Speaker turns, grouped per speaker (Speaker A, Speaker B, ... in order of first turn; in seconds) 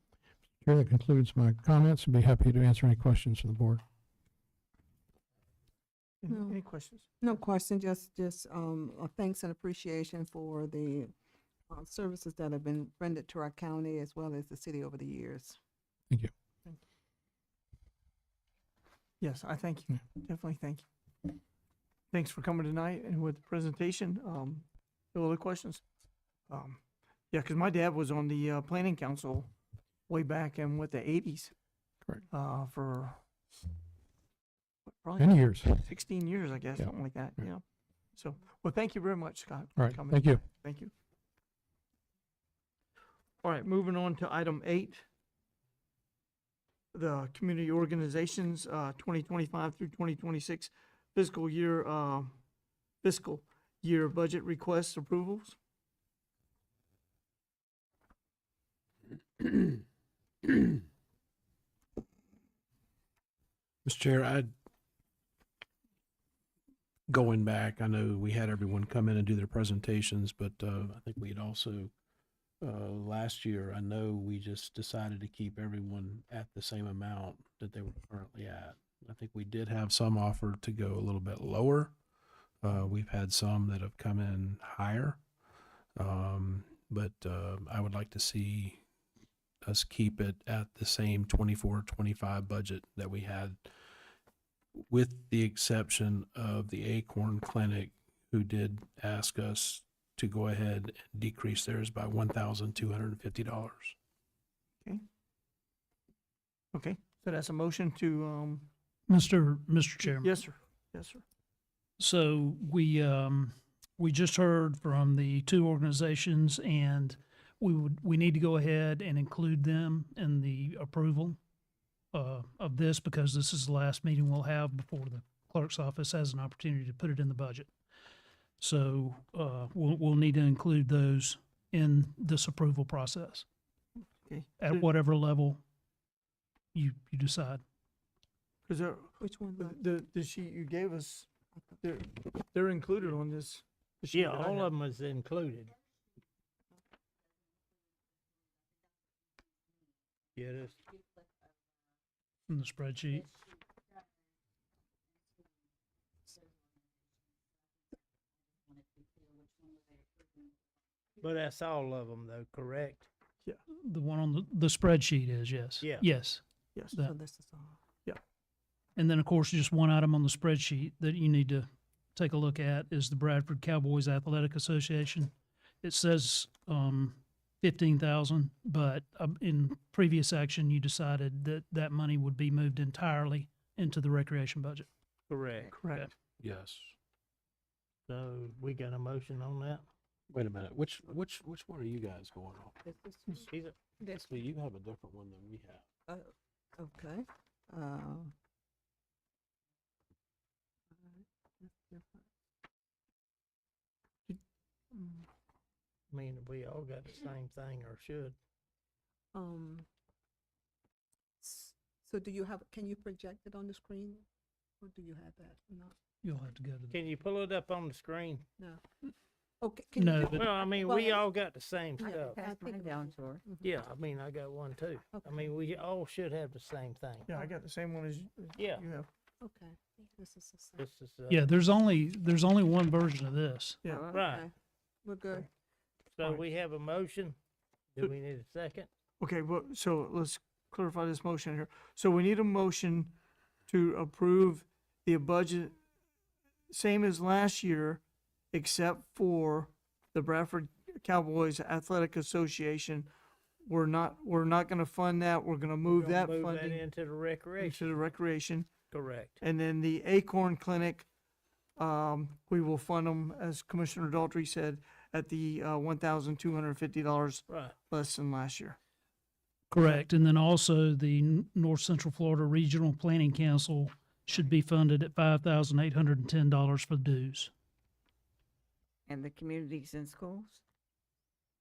Speaker A: 0.6-3.8, 35.2-35.9, 39.8-40.4
Speaker B: 6.2-7.1, 19.2-20.8, 22.1-25.8, 26.5-26.8, 27.3-29.5, 30.1-31.5, 32.3-33.2, 34.9-37.6, 38.1-40.9, 43.4-45.0, 46.9-52.3, 53.0-55.5, 106.7-108.7, 110.0-111.2, 134.2-134.8, 138.6-141.3, 141.8-144.7, 166.7-167.0, 185.7-186.1, 227.3-229.1, 239.2-243.1, 243.7-245.8, 246.7-248.0, 248.5-253.1, 253.6-256.8, 257.6-258.7, 259.4-261.1, 261.8-268.8, 269.8-270.0
Speaker C: 6.3-6.6, 7.2-11.1, 11.7-15.6, 139.2-139.8, 167.0-167.8, 192.8-193.5, 196.1-198.3, 200.9-202.2, 204.9-205.2, 209.3-209.8, 211.4-214.2, 214.8-215.9, 219.6-221.2, 222.0-223.7, 225.1-225.4, 229.4-230.8, 234.1-234.5, 235.0-235.5
Speaker D: 59.4-59.8, 63.8-64.5, 67.1-71.9, 72.6-81.9, 82.6-85.2, 86.0-88.8, 89.6-93.6, 94.9-103.9, 186.4-186.9, 190.3-192.8, 194.1-195.8
Speaker E: 109.1-110.4, 112.0-121.4, 122.1-127.7, 128.6-133.4, 134.6-135.6, 136.7-137.6, 152.5-153.3, 163.7-166.4, 168.9-184.9, 216.2-216.9, 219.9-220.5, 231.3-233.8, 269.7-277.5
Speaker F: 144.1-145.7, 150.3-150.8, 161.2-163.1, 185.3-185.7, 188.1-189.8, 193.4-193.8, 206.1-208.3, 216.9-218.4, 220.3-222.4, 223.6-227.3, 228.6-228.8, 230.8-231.5, 234.0-234.5, 236.2-237.4, 237.9-238.9, 255.8-258.0, 258.9-259.4, 267.5-267.7
Speaker G: 222.2-223.4, 233.8-234.2, 279.1-280.6